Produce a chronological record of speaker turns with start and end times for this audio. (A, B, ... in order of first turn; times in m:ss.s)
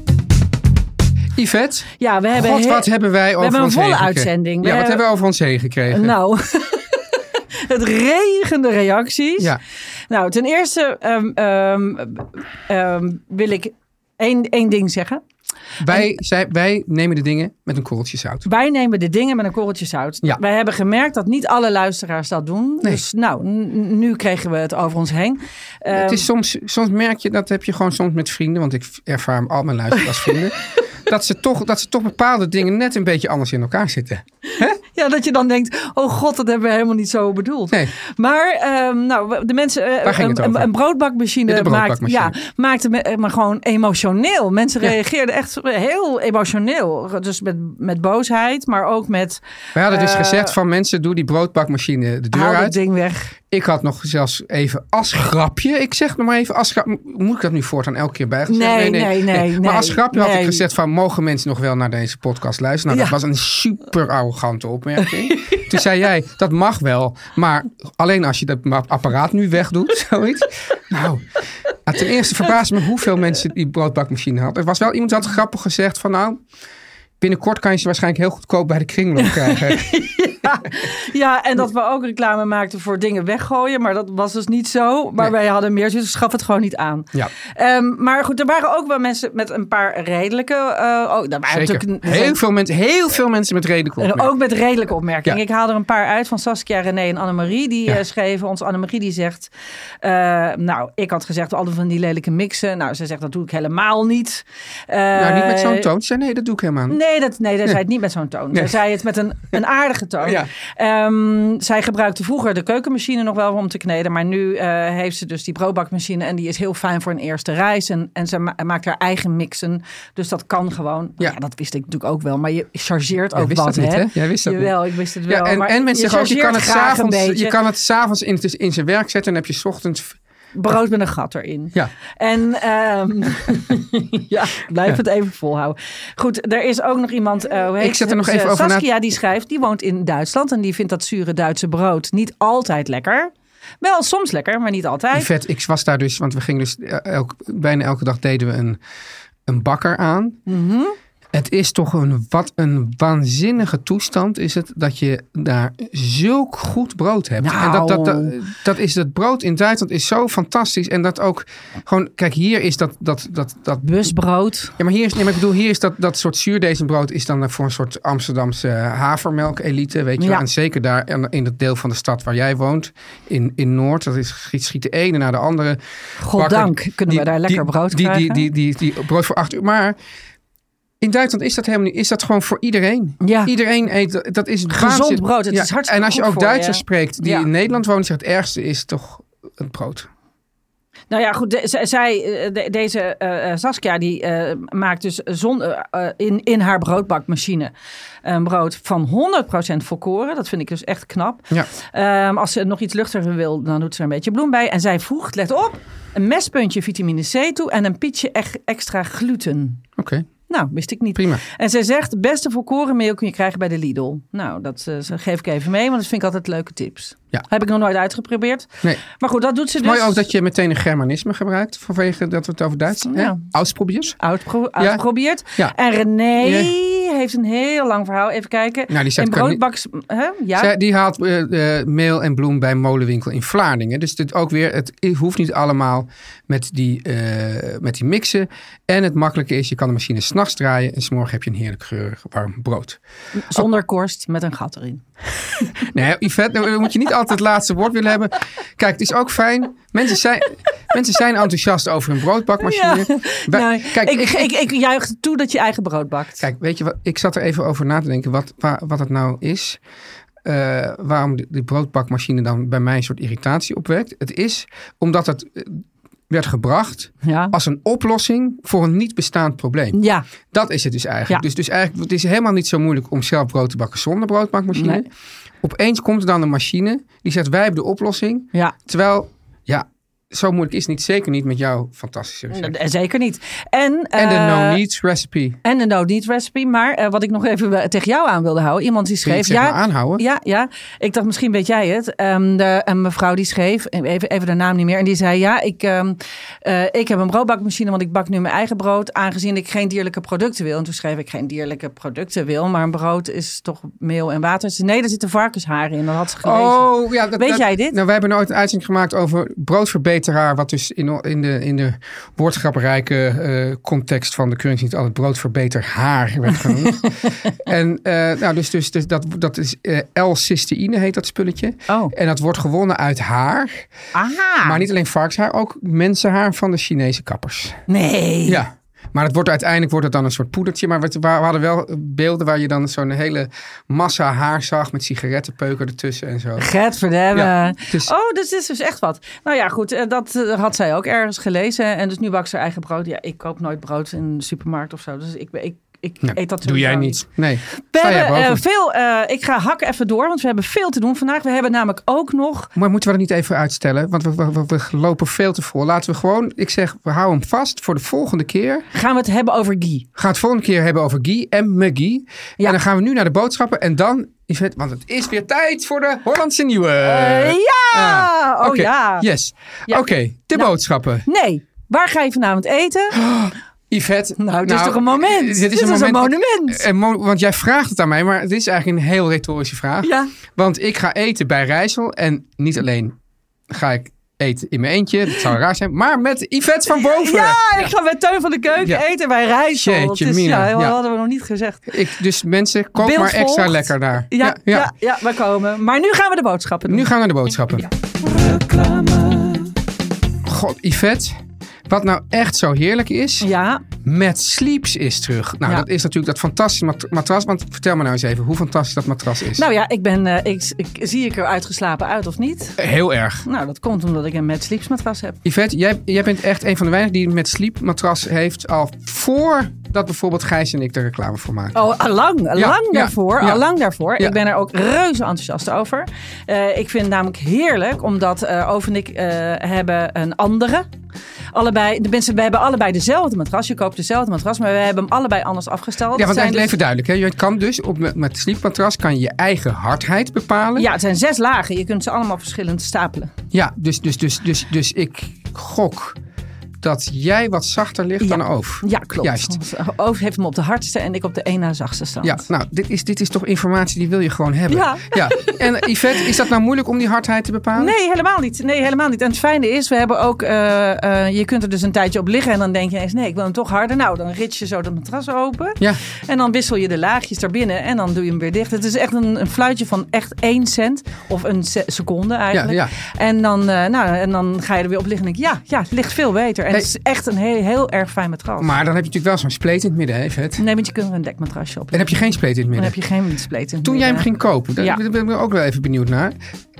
0:01.4-0:06.1 A
0:02.0-0:05.0 B
0:05.9-0:09.5 B
0:10.1-0:15.2 B
0:15.8-0:18.4 A
0:18.4-0:26.3 B
0:25.9-0:34.8 A
0:34.5-0:50.5 B
0:40.0-0:40.7 A
0:41.5-0:42.3 A
0:49.7-0:52.8 A
0:52.3-0:53.3 B
0:53.5-1:11.3 A
0:58.5-1:00.6 B
1:02.9-1:03.2 B
1:05.3-1:05.6 B
1:11.8-1:16.4 A
1:17.2-1:19.9 A
1:19.2-1:32.4 B
1:31.5-1:34.3 A
1:34.0-1:39.5 B
1:40.0-1:45.9 B
1:45.1-1:47.0 A
1:46.9-2:07.5 B
1:50.2-1:50.5 A
2:03.3-2:04.7 A
2:05.3-2:10.2 A
2:10.5-2:25.3 B
2:17.8-2:18.8 A
2:25.1-2:28.8 A
2:29.5-2:30.4 A
2:30.5-2:31.0 B
2:31.3-2:43.8 A
2:37.4-2:38.4 B
2:43.8-2:44.7 B
2:44.8-2:55.8 A
2:50.2-2:50.4 B
2:56.2-2:58.4 B
2:56.3-3:00.0 A
3:01.0-3:10.1 A
3:03.2-3:03.5 B
3:04.7-3:07.5 B
3:11.1-3:17.7 B
3:18.2-3:29.8 B
3:30.0-3:30.3 A
3:30.5-3:40.2 B
3:31.1-3:31.4 A
3:39.8-3:44.2 A
3:43.0-3:43.4 B
3:44.2-3:50.7 B
3:46.4-3:46.7 A
3:48.9-3:49.6 A
3:50.6-4:03.0 A
4:03.4-4:05.0 B
4:05.8-4:14.5 A
4:12.6-4:16.4 B
4:16.4-4:19.8 A
4:20.4-4:30.0 A
4:27.2-4:27.5 B
4:29.9-4:30.3 B
4:30.5-4:35.1 A
4:34.8-4:35.0 B
4:35.6-4:42.7 A
4:42.5-4:44.8 B
4:44.2-4:45.6 A
4:45.6-5:08.0 B
4:49.2-4:50.2 A
5:06.4-5:23.9 A
5:24.1-5:24.8 B
5:24.6-5:27.8 A
5:27.9-5:28.6 B
5:28.4-5:36.7 A
5:36.6-5:47.2 B
5:37.3-5:38.1 A
5:46.2-5:48.6 A
5:47.8-5:52.7 B
5:52.7-5:58.8 A
5:58.9-6:00.0 B
6:00.2-6:11.2 A
6:07.0-6:09.3 B
6:11.2-6:13.2 B
6:13.1-6:23.1 A
6:14.4-6:16.8 B
6:20.0-6:20.3 B
6:23.7-6:27.9 A
6:26.9-6:31.9 B
6:29.7-6:31.0 A
6:31.9-6:34.9 A
6:33.0-6:37.1 B
6:36.8-6:37.9 A
6:38.3-6:39.6 B
6:40.4-6:43.5 A
6:43.4-6:43.8 B
6:44.0-6:49.6 A
6:49.6-6:52.8 B
6:52.8-6:53.4 A
6:53.4-6:55.4 B
6:55.4-7:01.9 A
7:01.7-7:10.9 B
7:02.5-7:03.6 A
7:11.5-7:16.7 B
7:16.1-7:20.9 A
7:20.8-7:23.3 B
7:23.5-7:26.2 A
7:26.8-7:29.6 A
7:28.2-7:32.4 B
7:32.2-7:37.9 A
7:34.7-7:36.3 B
7:37.8-7:58.7 B
7:52.5-7:52.9 A
7:58.6-8:00.6 A
8:00.6-8:02.2 B
8:01.9-8:03.0 A
8:02.8-8:04.3 B
8:03.8-8:06.3 A